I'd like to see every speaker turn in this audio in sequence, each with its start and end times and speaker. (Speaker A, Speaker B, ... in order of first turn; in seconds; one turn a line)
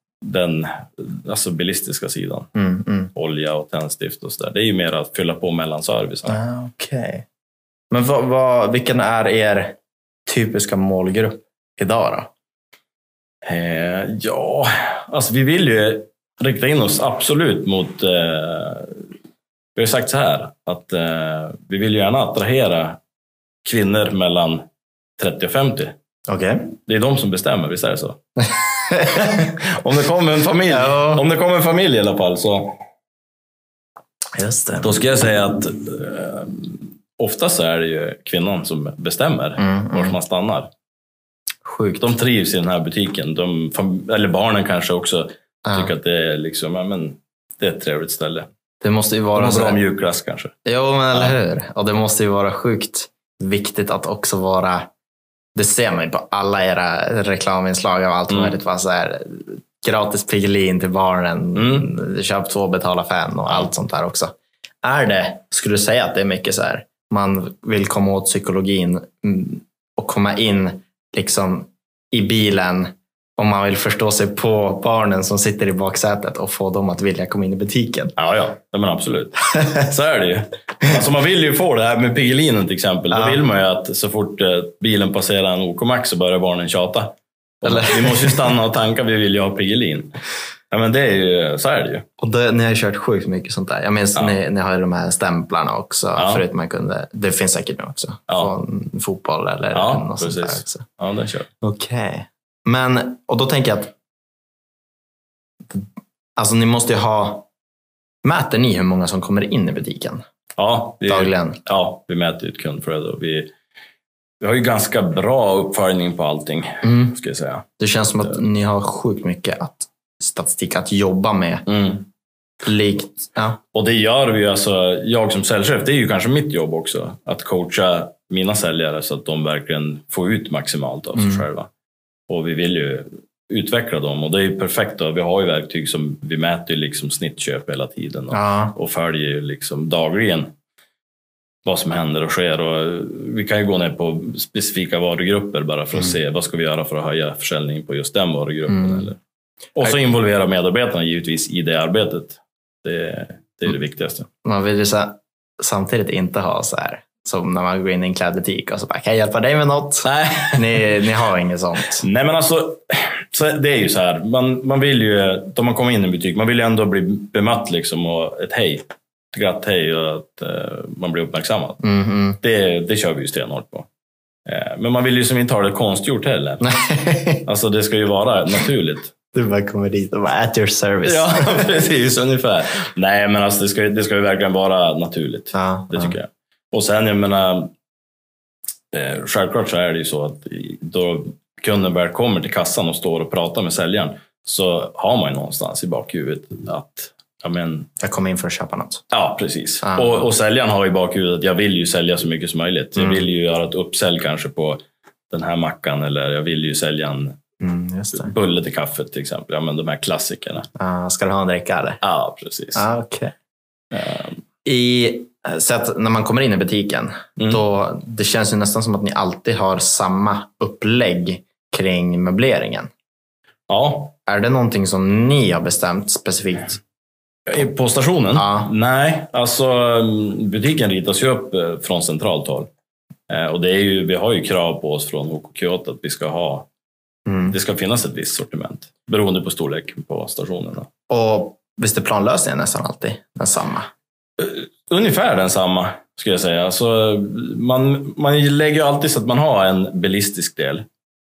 Speaker A: 0.2-2.5
Speaker B: 2.5-3.1
Speaker A: 3.1-6.4
Speaker B: 6.3-7.2
Speaker B: 7.9-12.3
Speaker A: 13.4-19.1
Speaker A: 19.7-23.0
Speaker A: 23.6-24.6
Speaker A: 25.2-25.9
Speaker B: 26.3-26.7
Speaker A: 26.9-28.2
Speaker B: 28.4-29.5
Speaker A: 29.1-32.8
Speaker B: 30.7-31.2
Speaker B: 34.3-35.0
Speaker A: 34.8-40.7
Speaker B: 39.6-40.1
Speaker B: 41.6-42.1
Speaker A: 42.0-48.5
Speaker B: 45.6-45.9
Speaker B: 48.8-49.8
Speaker A: 49.3-50.5
Speaker B: 50.6-54.9
Speaker B: 55.5-78.1
Speaker A: 58.3-58.5
Speaker A: 61.5-61.9
Speaker A: 78.2-90.1
Speaker B: 83.1-83.4
Speaker B: 87.6-88.5
Speaker A: 90.7-92.0
Speaker B: 92.2-100.8
Speaker A: 96.2-96.4
Speaker A: 99.7-101.5
Speaker B: 101.6-103.9
Speaker B: 106.4-107.5
Speaker B: 108.2-110.2
Speaker A: 110.5-113.5
Speaker B: 111.1-111.6
Speaker A: 114.4-117.7
Speaker B: 116.8-117.2
Speaker B: 117.8-121.7
Speaker A: 121.7-122.0
Speaker B: 122.6-123.6
Speaker A: 123.7-131.7
Speaker B: 131.2-131.4
Speaker A: 132.3-140.5
Speaker B: 138.3-138.7
Speaker A: 141.6-149.2
Speaker B: 148.7-149.1
Speaker A: 149.7-154.3
Speaker B: 154.4-162.0
Speaker A: 160.0-160.9
Speaker A: 162.0-171.8
Speaker B: 171.8-172.4
Speaker A: 172.4-173.9
Speaker A: 174.4-176.7
Speaker B: 176.6-177.4
Speaker A: 177.4-179.1
Speaker B: 179.3-181.7
Speaker A: 181.0-187.7
Speaker B: 185.5-186.2
Speaker A: 188.9-197.9
Speaker B: 198.0-199.0
Speaker A: 199.1-207.4
Speaker B: 199.8-200.2
Speaker B: 203.0-203.2
Speaker B: 207.6-208.3
Speaker A: 208.1-210.7
Speaker B: 210.8-212.0
Speaker A: 212.0-212.8
Speaker B: 212.7-213.3
Speaker A: 213.9-214.4
Speaker B: 214.6-222.9
Speaker A: 223.7-224.1
Speaker B: 224.2-226.8
Speaker A: 227.5-232.7
Speaker B: 228.3-228.7
Speaker A: 233.3-236.7
Speaker B: 237.2-237.5
Speaker A: 237.5-240.9
Speaker B: 241.1-243.9
Speaker A: 244.4-250.8